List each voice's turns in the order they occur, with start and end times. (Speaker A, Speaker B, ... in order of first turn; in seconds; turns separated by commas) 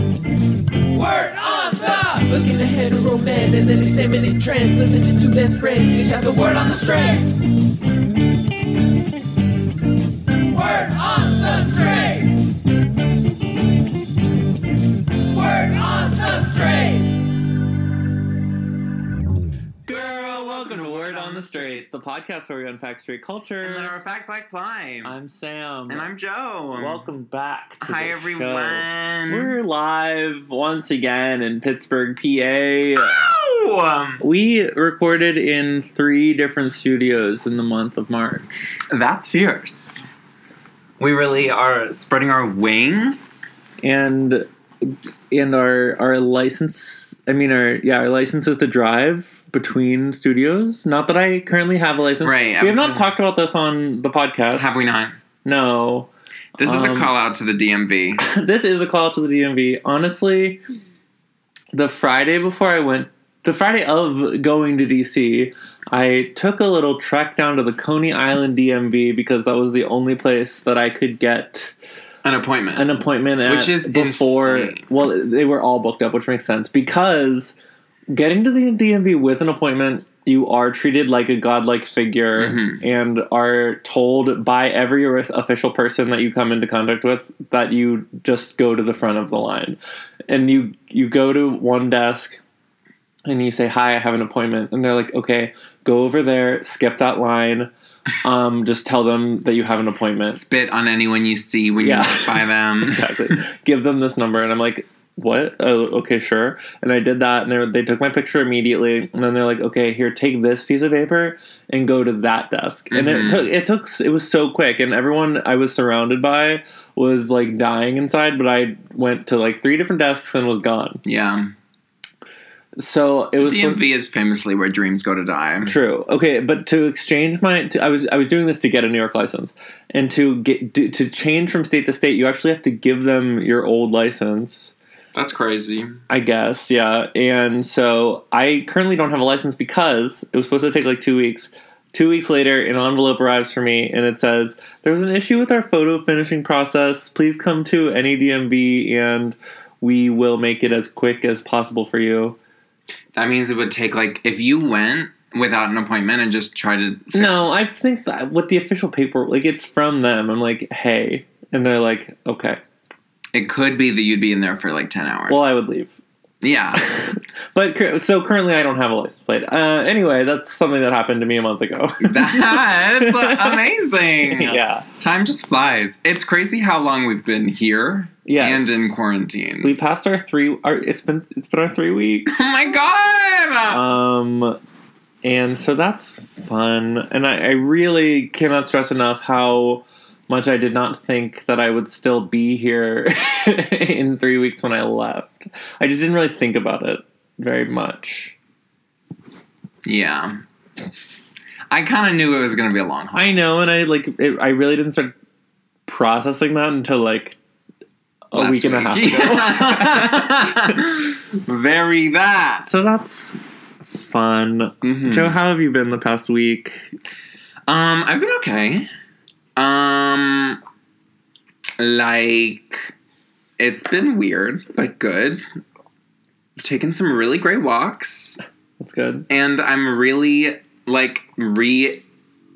Speaker A: 0.9-7.4, Speaker A: 10.5-12.3, Speaker A: 15.3-17.2, Speaker B: 19.9-23.9, Speaker C: 20.1-22.0, Speaker C: 23.6-25.1, Speaker B: 25.0-26.1, Speaker C: 25.9-27.1, Speaker B: 26.7-33.2, Speaker C: 27.8-29.5, Speaker C: 33.0-34.2, Speaker B: 34.2-38.8, Speaker C: 38.9-40.0, Speaker C: 41.0-43.5, Speaker B: 43.8-54.8, Speaker C: 52.2-53.1, Speaker C: 54.5-55.1, Speaker B: 55.4-57.1, Speaker C: 56.6-58.2, Speaker B: 58.2-60.6, Speaker B: 61.7-71.8, Speaker C: 72.2-74.8, Speaker B: 72.8-77.5, Speaker B: 78.1-89.8, Speaker C: 82.3-82.8, Speaker B: 90.3-92.4, Speaker B: 93.2-97.7, Speaker B: 98.2-100.4, Speaker C: 100.3-103.1, Speaker B: 101.8-121.0, Speaker C: 112.9-113.5, Speaker C: 121.0-121.5, Speaker B: 122.8-123.8, Speaker C: 123.4-125.7, Speaker B: 125.7-134.7, Speaker C: 135.1-136.0, Speaker B: 136.1-152.4, Speaker C: 153.1-157.4, Speaker B: 157.1-162.6, Speaker C: 163.3-165.5, Speaker B: 165.3-166.0, Speaker C: 166.4-166.8, Speaker B: 166.8-173.6, Speaker C: 172.0-179.8, Speaker B: 174.2-174.9, Speaker B: 178.2-179.0, Speaker B: 179.6-182.4, Speaker C: 182.3-183.8, Speaker B: 183.7-184.6, Speaker B: 185.2-198.3, Speaker C: 199.8-200.4, Speaker C: 201.7-203.4, Speaker B: 203.1-205.1, Speaker B: 205.8-207.4, Speaker B: 208.3-210.6, Speaker C: 208.3-212.7, Speaker B: 212.6-213.4, Speaker B: 213.9-216.9, Speaker C: 214.8-215.3, Speaker C: 217.7-218.9, Speaker C: 219.6-220.6, Speaker C: 221.8-222.9, Speaker C: 223.6-225.4, Speaker C: 226.6-228.4, Speaker B: 228.8-229.3, Speaker C: 229.3-232.0